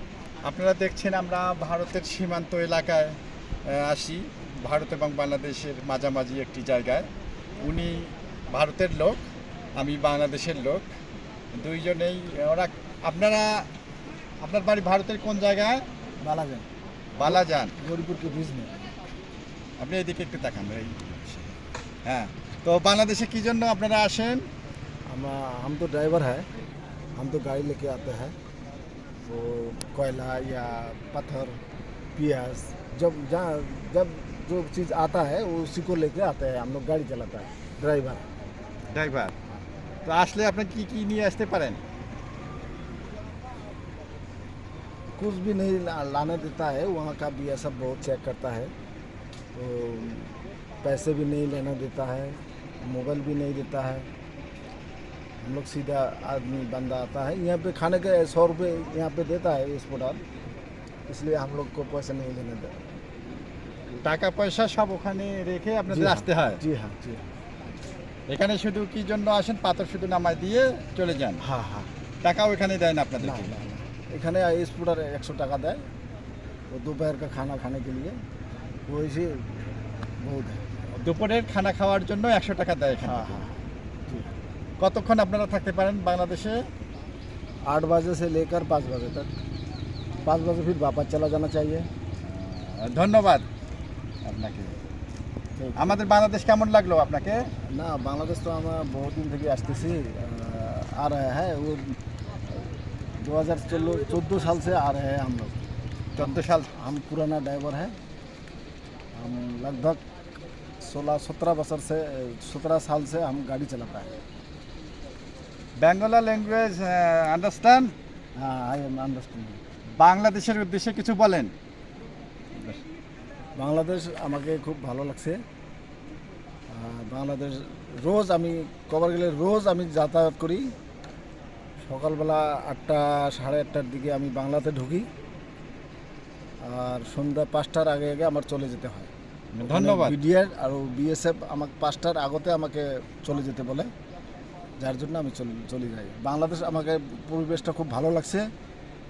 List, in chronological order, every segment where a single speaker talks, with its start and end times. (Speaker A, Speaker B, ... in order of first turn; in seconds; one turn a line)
Speaker A: 0.4-7.1
Speaker A: 7.6-9.2
Speaker A: 9.8-10.9
Speaker A: 11.5-13.7
Speaker A: 14.4-15.8
Speaker B: 16.2-16.6
Speaker A: 17.1-17.7
Speaker B: 17.2-18.9
Speaker A: 19.8-24.4
Speaker B: 25.1-26.5
Speaker B: 27.1-28.3
Speaker B: 29.2-31.6
Speaker B: 32.1-38.2
Speaker A: 38.9-39.4
Speaker A: 40.0-41.8
Speaker B: 45.2-48.7
Speaker B: 49.5-54.1
Speaker B: 55.4-60.2
Speaker B: 61.1-62.8
Speaker A: 63.9-66.6
Speaker B: 65.9-67.2
Speaker A: 68.3-71.4
Speaker B: 71.4-71.9
Speaker A: 72.2-73.5
Speaker B: 73.2-75.8
Speaker B: 76.7-78.2
Speaker B: 78.9-79.7
Speaker B: 80.2-80.6
Speaker A: 80.9-83.5
Speaker B: 83.0-84.3
Speaker A: 84.8-86.6
Speaker B: 87.7-89.3
Speaker B: 90.2-91.9
Speaker A: 92.2-93.4
Speaker A: 94.2-94.8
Speaker B: 95.5-96.0
Speaker A: 95.8-97.5
Speaker B: 97.6-102.0
Speaker B: 102.5-105.6
Speaker A: 106.1-106.7
Speaker B: 106.2-107.9
Speaker B: 109.1-110.0
Speaker B: 110.8-114.2
Speaker A: 115.8-117.9
Speaker B: 118.3-119.6
Speaker A: 120.0-121.5
Speaker A: 122.5-122.8
Speaker B: 123.5-125.4
Speaker B: 126.7-130.7
Speaker B: 131.8-135.1
Speaker B: 136.6-139.1
Speaker A: 139.5-140.2
Speaker B: 139.7-143.9
Speaker B: 144.8-148.5